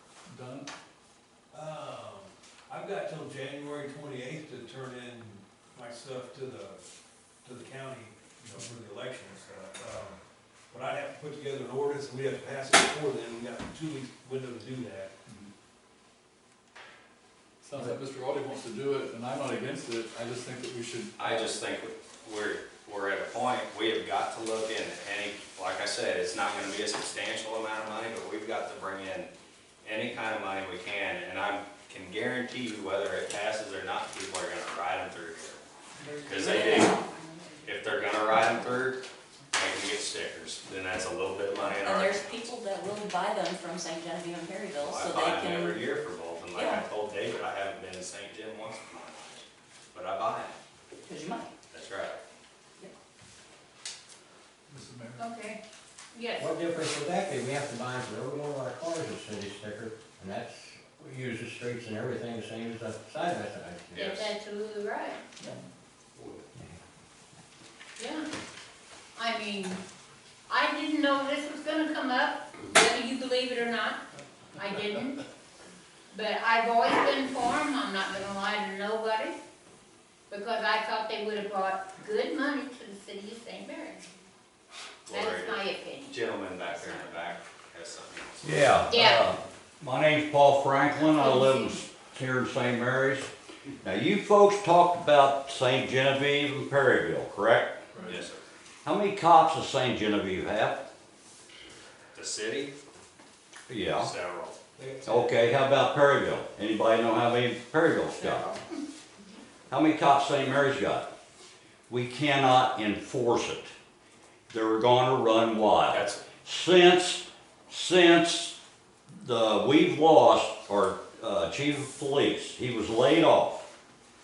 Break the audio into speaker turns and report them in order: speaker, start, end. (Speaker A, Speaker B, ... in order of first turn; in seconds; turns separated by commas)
Speaker A: 0.3-0.7, Speaker B: 1.5-6.8, Speaker B: 7.4-10.2, Speaker B: 10.7-15.1, Speaker A: 17.6-21.5, Speaker C: 21.2-29.3, Speaker C: 29.8-35.6, Speaker C: 36.2-37.0, Speaker D: 36.3-37.2, Speaker E: 37.0-37.7, Speaker C: 37.6-39.0, Speaker C: 39.5-42.5, Speaker D: 41.8-45.9, Speaker C: 44.8-50.6, Speaker D: 46.5-46.8, Speaker D: 51.0-51.5, Speaker C: 51.7-52.2, Speaker A: 54.7-55.3, Speaker E: 55.2-55.6, Speaker E: 56.1-56.5, Speaker F: 56.4-64.3, Speaker E: 64.0-65.2, Speaker E: 68.0-68.2, Speaker E: 69.2-69.8, Speaker E: 70.5-74.0, Speaker E: 74.6-75.2, Speaker E: 76.1-79.3, Speaker E: 80.3-84.0, Speaker C: 85.1-88.8, Speaker E: 85.1-87.2, Speaker G: 88.4-93.3, Speaker E: 88.9-89.3, Speaker E: 91.0-91.8, Speaker G: 93.8-97.8, Speaker A: 97.9-98.2, Speaker C: 98.0-98.4, Speaker G: 98.8-100.8, Speaker C: 102.1-102.7, Speaker G: 103.7-104.1, Speaker C: 103.9-104.5, Speaker B: 104.8-105.4, Speaker G: 105.0-108.5, Speaker D: 108.2-108.6, Speaker G: 109.7-111.1, Speaker G: 111.9-113.7, Speaker G: 114.5-118.5, Speaker C: 115.9-116.2, Speaker G: 119.1-123.7